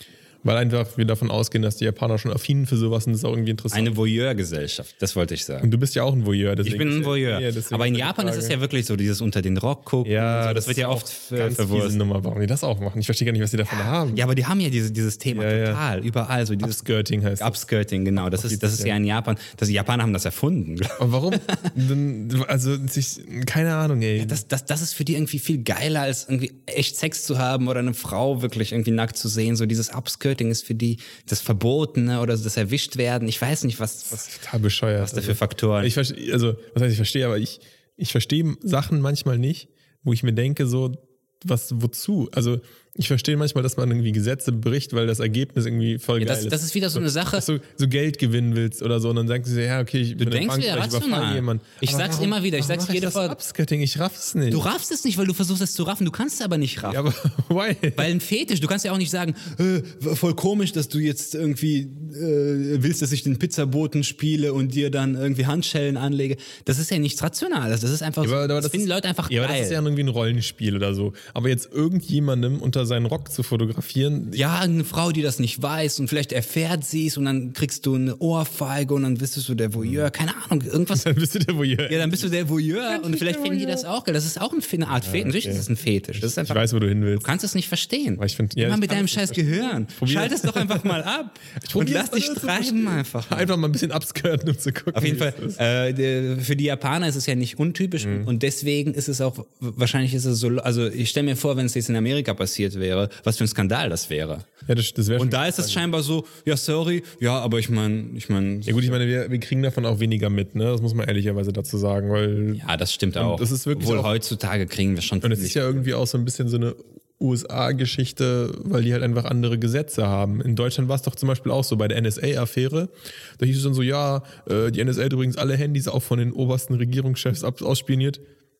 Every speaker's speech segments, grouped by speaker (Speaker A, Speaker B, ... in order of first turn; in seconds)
Speaker A: 0.4-4.0, 5.6-8.5, 10.0-14.2, 15.3-15.8, 16.6-17.6, 18.2-18.9, 21.0-24.4, 34.1-54.6, 56.8-58.1, 68.2-74.4, 79.8-80.1, 80.9-82.3, 82.9-83.8, 85.0-87.3, 88.2-91.0, 91.6-95.6, 98.0-98.3, 104.7-105.8, 108.7-112.6, 113.2-114.1, 115.2-128.2
Speaker B: 3.7-5.7, 6.6-12.0, 13.7-16.8, 17.4-21.7, 24.1-34.4, 35.0-35.9, 46.2-47.5, 50.2-53.4, 54.5-57.0, 58.0-69.8, 74.3-81.0, 81.9-93.5, 94.9-104.5, 105.2-109.0, 112.5-115.9